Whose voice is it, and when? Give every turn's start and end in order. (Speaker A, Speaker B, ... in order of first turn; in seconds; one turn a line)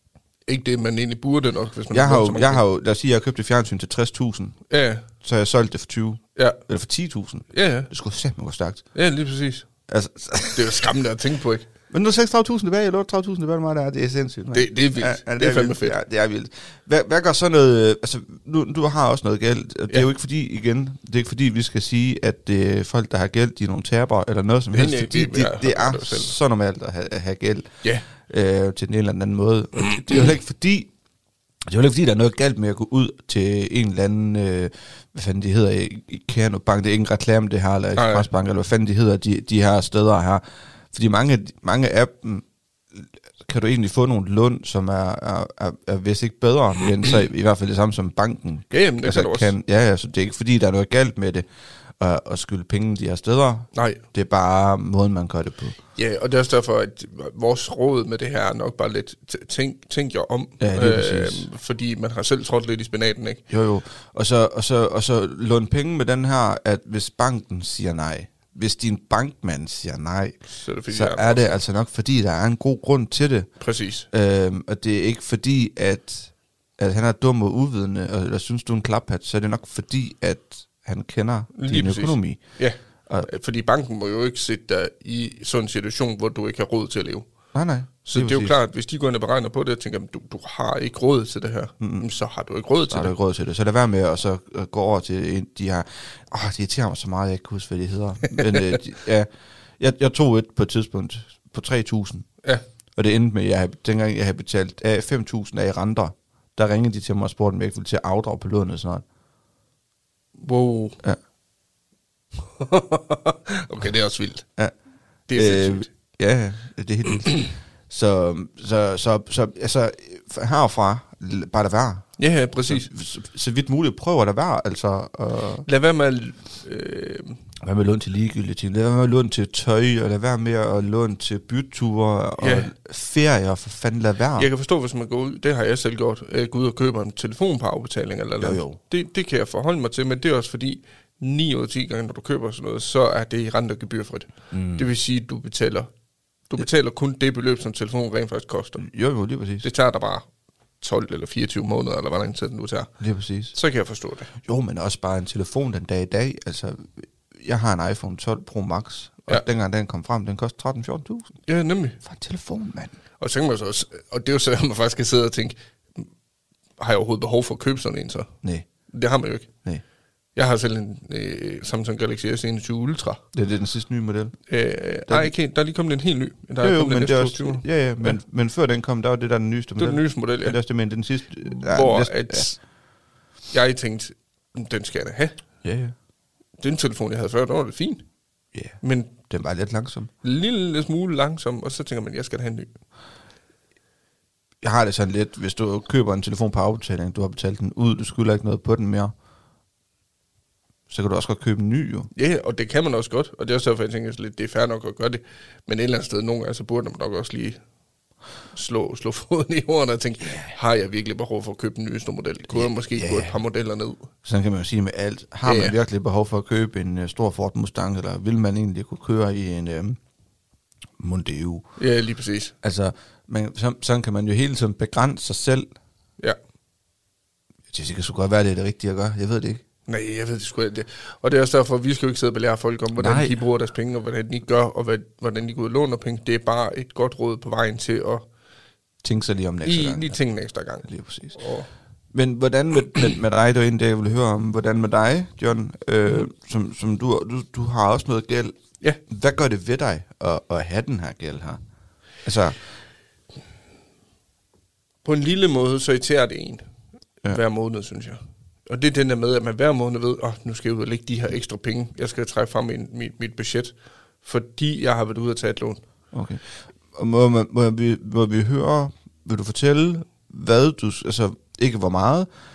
Speaker A: 0.5-2.6
Speaker B: 1.9-4.6
Speaker A: 4.7-5.0
Speaker B: 5.2-8.9
Speaker A: 7.5-7.9
Speaker A: 8.9-9.7
Speaker B: 9.9-10.8
Speaker A: 10.5-11.7
Speaker B: 11.9-30.9
Speaker A: 14.5-16.0
Speaker A: 24.7-26.3
Speaker B: 31.7-51.5
Speaker A: 38.0-38.3
Speaker A: 48.7-49.5
Speaker B: 52.0-55.8
Speaker A: 53.8-54.0
Speaker A: 56.0-63.4
Speaker B: 60.6-61.5
Speaker B: 63.5-70.4
Speaker A: 70.6-71.6
Speaker B: 70.9-73.5
Speaker A: 73.6-74.1
Speaker B: 74.1-82.4
Speaker A: 81.6-87.3
Speaker B: 87.5-88.6
Speaker A: 88.0-93.1
Speaker B: 91.8-92.1
Speaker B: 92.9-102.3
Speaker A: 98.4-98.8
Speaker B: 103.0-109.0
Speaker A: 110.4-111.0
Speaker A: 112.6-114.5
Speaker A: 115.3-115.9
Speaker B: 115.3-125.7
Speaker A: 122.2-122.9
Speaker A: 125.7-127.4
Speaker B: 127.6-134.5
Speaker A: 132.4-132.7
Speaker A: 134.4-145.9
Speaker B: 138.4-138.8
Speaker B: 144.5-144.9
Speaker A: 146.5-148.9
Speaker B: 148.8-149.7
Speaker A: 149.6-150.3
Speaker A: 150.8-152.9
Speaker B: 153.0-153.6
Speaker A: 153.5-154.3
Speaker B: 154.4-161.3
Speaker A: 161.5-162.0
Speaker B: 162.0-162.9
Speaker A: 163.2-166.1
Speaker A: 166.8-168.3
Speaker A: 168.9-169.5
Speaker A: 170.4-173.2
Speaker B: 173.3-174.3
Speaker A: 174.5-178.2
Speaker B: 176.6-182.5
Speaker A: 179.8-180.6
Speaker A: 181.5-182.6
Speaker A: 183.5-185.4
Speaker B: 185.6-185.9
Speaker A: 186.6-188.1
Speaker B: 188.5-190.1
Speaker A: 188.8-189.2
Speaker A: 190.2-192.7
Speaker B: 194.6-199.1
Speaker B: 200.9-202.1
Speaker A: 202.2-207.6
Speaker A: 208.5-214.1
Speaker B: 210.3-210.5
Speaker B: 212.5-213.4
Speaker B: 214.2-220.0
Speaker A: 215.4-215.8
Speaker B: 221.0-221.7
Speaker A: 221.8-222.6
Speaker B: 222.6-225.7
Speaker B: 227.7-229.6
Speaker A: 229.9-238.2
Speaker B: 233.0-233.3
Speaker B: 239.0-240.2
Speaker A: 239.7-241.7
Speaker B: 240.8-241.4
Speaker B: 242.1-248.6
Speaker B: 249.1-251.6
Speaker B: 252.2-252.6
Speaker A: 255.0-256.6
Speaker A: 257.3-265.8
Speaker B: 266.1-272.3